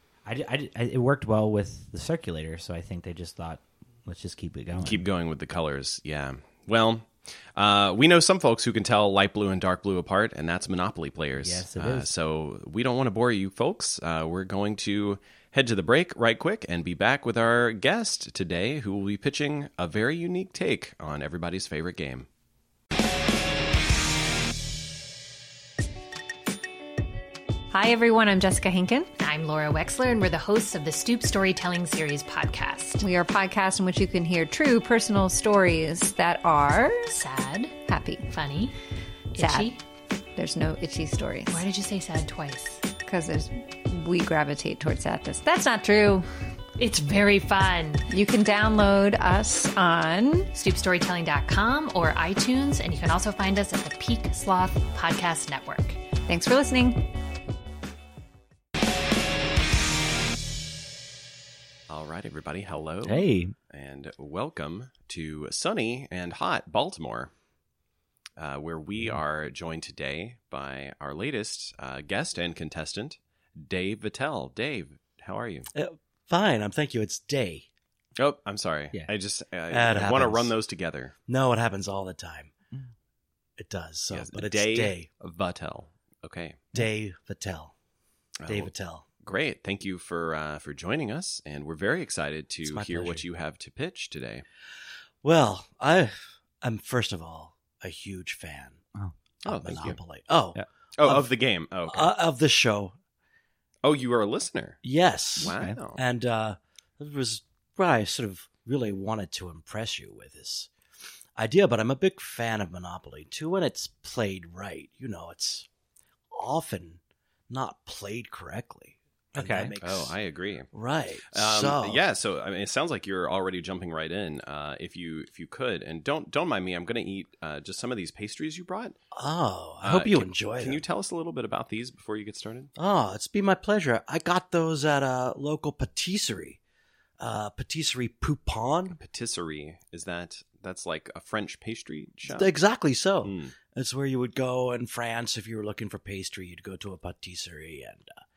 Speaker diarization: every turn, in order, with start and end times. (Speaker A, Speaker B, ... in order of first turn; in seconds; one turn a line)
Speaker A: 0.3-5.0
Speaker B: 4.8-22.3
Speaker A: 11.4-12.1
Speaker C: 27.7-29.1
Speaker D: 29.2-33.1
Speaker C: 33.0-37.2
Speaker D: 37.1-38.7
Speaker C: 37.9-38.3
Speaker D: 39.3-39.8
Speaker C: 39.4-39.7
Speaker C: 40.4-41.7
Speaker D: 41.5-42.9
Speaker C: 43.0-46.3
Speaker D: 46.8-48.1
Speaker C: 48.1-50.5
Speaker D: 50.5-56.0
Speaker C: 56.3-57.0
Speaker B: 61.9-67.3
Speaker A: 63.0-63.5
Speaker B: 68.4-75.7
Speaker E: 75.7-77.7
Speaker B: 78.2-81.1
Speaker E: 79.7-80.5
Speaker E: 81.3-82.5
Speaker E: 83.6-85.1
Speaker B: 84.1-86.7
Speaker E: 86.7-87.7
Speaker B: 88.4-88.7
Speaker E: 88.5-89.1
Speaker B: 89.2-94.5
Speaker E: 92.7-93.2
Speaker E: 95.2-98.8
Speaker B: 99.4-100.0
Speaker E: 99.5-101.3
Speaker B: 101.0-102.1
Speaker E: 101.9-103.0
Speaker B: 103.8-104.8
Speaker E: 104.8-110.7
Speaker B: 105.4-106.0
Speaker A: 105.5-105.8
Speaker E: 111.4-115.7
Speaker E: 116.3-120.2
Speaker A: 119.4-119.7
Speaker B: 119.8-120.7
Speaker E: 120.7-122.0
Speaker B: 121.3-129.0
Speaker E: 129.1-130.8
Speaker B: 129.8-132.7
Speaker E: 132.8-136.6
Speaker E: 137.2-139.0
Speaker B: 138.9-142.5
Speaker E: 142.3-148.1
Speaker B: 143.2-143.5